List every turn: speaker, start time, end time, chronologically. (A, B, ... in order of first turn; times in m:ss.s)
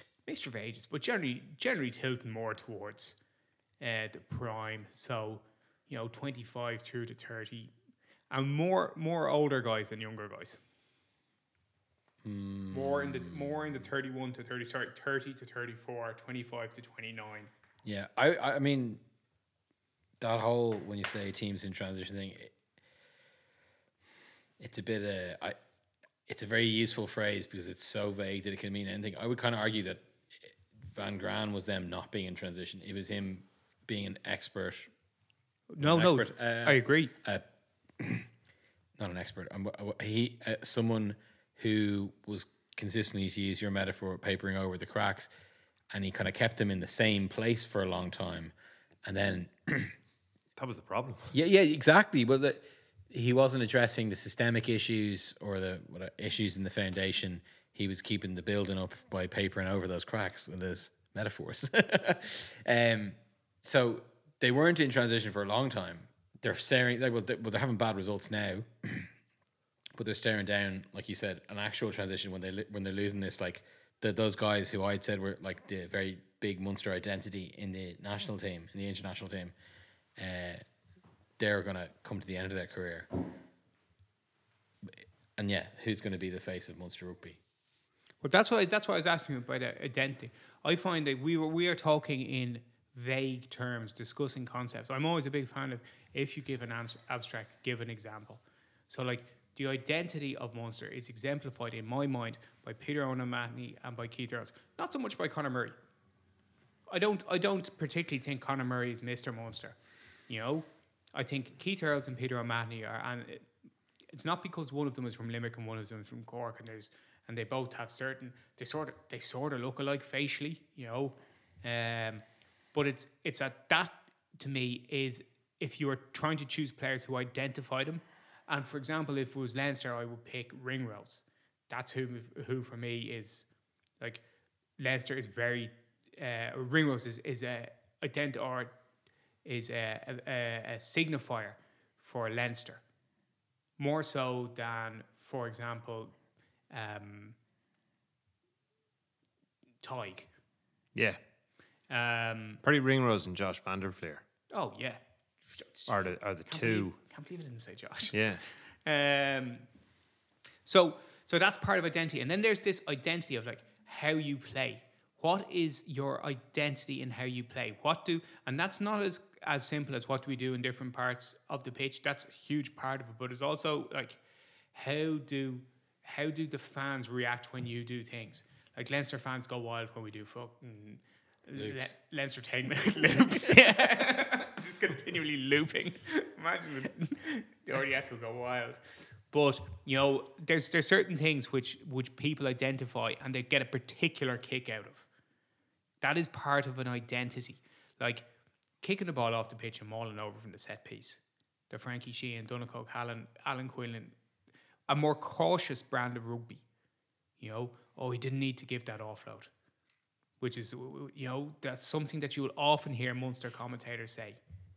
0:00.2-0:03.2 A
0:03.8-0:07.7 A
0:08.3-0:10.6 A
0:12.2-0:13.8 B
0:12.7-0:17.5 A
0:17.8-0:19.0 B
0:20.2-0:22.6 B
0:24.6-0:25.6 B
0:26.3-0:34.9 B
0:35.7-0:37.1 A
0:35.8-0:37.4 B
0:38.0-0:38.3 B
0:39.0-0:45.3 B
0:45.9-0:48.5 B
0:49.0-0:49.9 B
0:50.6-0:51.3 C
0:51.3-1:09.1 B
1:09.9-1:19.5 B
1:20.2-1:20.6 B
1:21.4-1:23.2 B
1:24.8-1:27.4 B
1:28.2-1:45.7 A
1:46.9-1:49.8 A
1:50.3-1:53.5 A
1:54.1-2:13.5 A
2:14.8-2:18.7 A
2:19.4-2:22.8 A
2:23.8-2:26.1 A
2:26.7-2:27.4 A
2:29.8-2:30.3 A
2:30.9-2:31.2 C
2:31.9-2:32.6 A
2:32.6-2:34.2 C
2:34.5-2:35.0 A
2:35.5-2:35.9 A
2:35.9-2:36.9 C
2:36.5-2:39.6 A
2:38.1-2:38.5 C
2:40.6-2:54.2 A
2:54.7-3:15.1 A
3:01.5-3:01.9 B
3:16.0-3:18.3 A
3:18.8-3:24.1 A
3:24.9-3:26.6 A
3:27.4-3:29.5 A
3:30.4-3:34.4 A